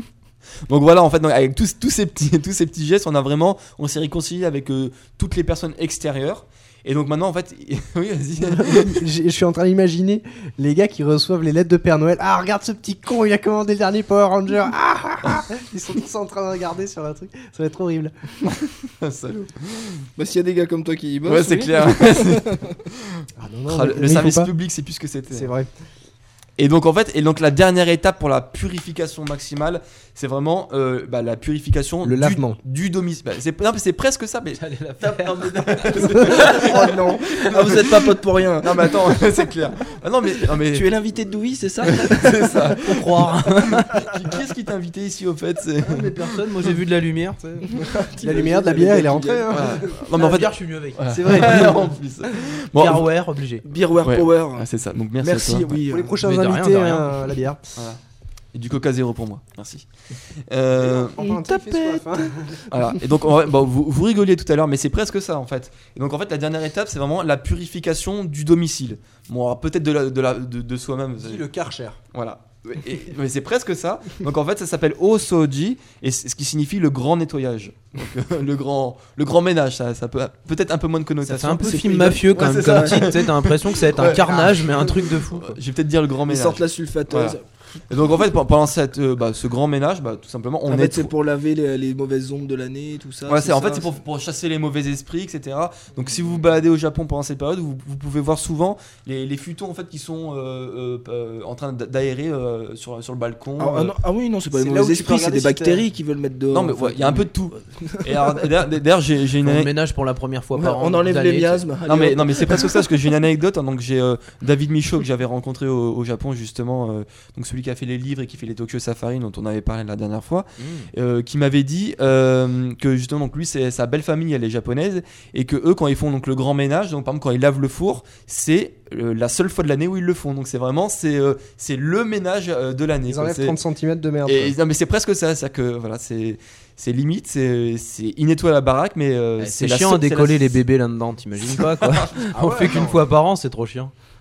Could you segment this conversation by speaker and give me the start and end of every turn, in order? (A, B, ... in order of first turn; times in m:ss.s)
0:00.7-0:09.1 A
0:08.4-0:18.1 B
0:19.0-0:20.1 A
0:20.2-0:22.7 C
0:21.3-0:25.5 A
0:23.4-0:24.5 B
0:25.3-0:25.7 B
0:26.6-0:38.1 A
0:32.0-0:32.6 B
0:34.6-0:36.8 D
0:36.3-0:38.9 C
0:38.6-0:40.9 A
0:40.7-0:42.7 C
0:41.8-0:46.4 A
0:42.8-0:44.0 D
0:45.8-0:47.8 D
0:47.7-0:49.6 C
0:48.2-0:50.1 B
0:49.5-0:53.1 A
0:50.0-0:51.7 D
0:51.1-0:51.9 B
0:52.7-0:53.6 D
0:53.6-0:54.7 C
0:54.0-0:55.8 A
0:55.2-0:56.2 C
0:55.9-0:57.6 B
0:56.2-0:57.2 D
0:58.5-1:01.3 A
1:00.8-1:02.6 B
1:01.1-1:02.1 C
1:02.7-1:11.5 A
1:11.2-1:12.0 B
1:12.1-1:27.4 A
1:21.2-1:25.6 D
1:21.6-1:23.1 C
1:26.3-1:27.8 C
1:27.9-1:31.1 A
1:30.7-1:34.0 C
1:33.3-1:43.9 A
1:43.6-1:48.5 C
1:44.5-1:45.8 B
1:46.5-1:49.7 A
1:49.4-1:51.6 D
1:50.6-1:52.9 C
1:51.9-2:13.6 A
2:00.6-2:00.9 D
2:13.1-2:14.6 B
2:14.2-2:20.6 A
2:19.4-2:23.9 D
2:21.5-2:22.2 A
2:22.3-2:23.0 B